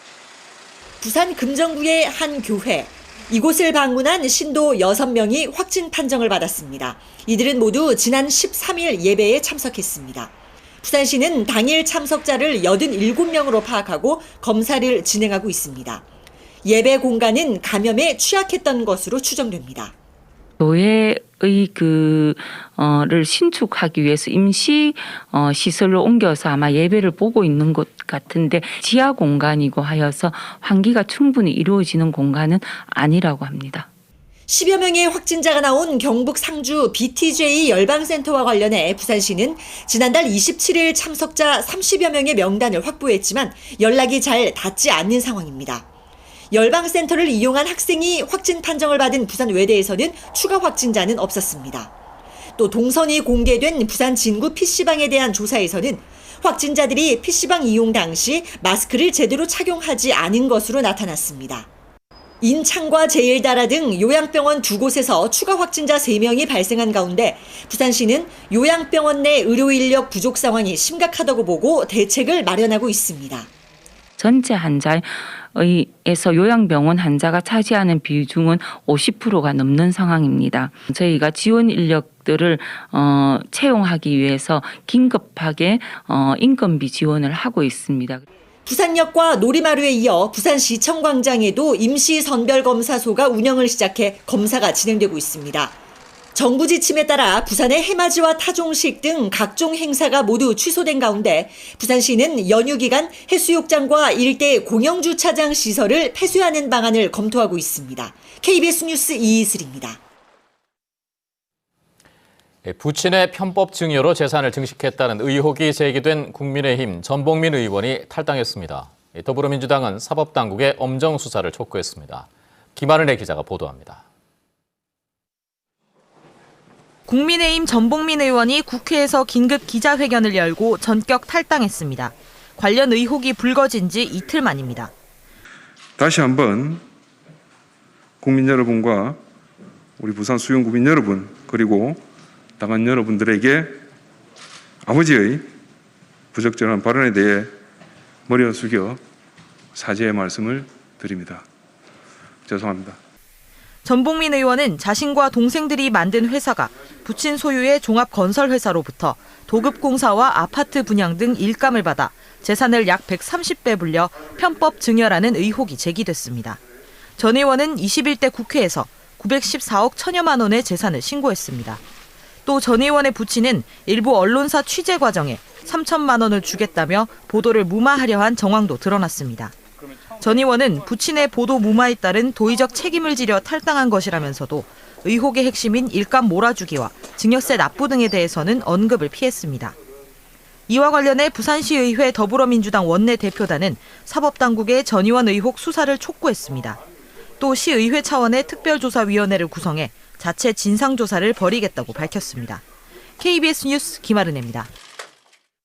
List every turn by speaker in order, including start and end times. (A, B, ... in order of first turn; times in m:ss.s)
0:01.0-0:16.0 A
0:16.6-0:19.9 A
0:20.6-0:33.9 B
0:34.5-0:45.8 A
0:46.5-0:51.9 A
0:52.6-1:01.7 A
1:02.4-1:13.5 A
1:14.2-1:28.2 B
1:28.7-1:35.8 A
1:36.3-1:50.0 A
1:52.6-2:04.0 C
2:07.1-2:14.9 D
2:16.0-2:16.8 E
2:18.2-2:19.2 E
2:20.0-2:22.0 E
2:22.6-2:23.8 E
2:24.8-2:25.5 E
2:26.3-2:27.5 E
2:28.3-2:29.0 E
2:29.7-2:31.5 E
2:32.5-2:33.0 E
2:33.8-2:46.6 D
2:47.2-2:51.8 D
2:52.5-2:59.6 D
3:00.2-3:09.8 D
3:10.7-3:16.8 D
3:17.4-3:22.6 D
3:23.2-3:24.7 D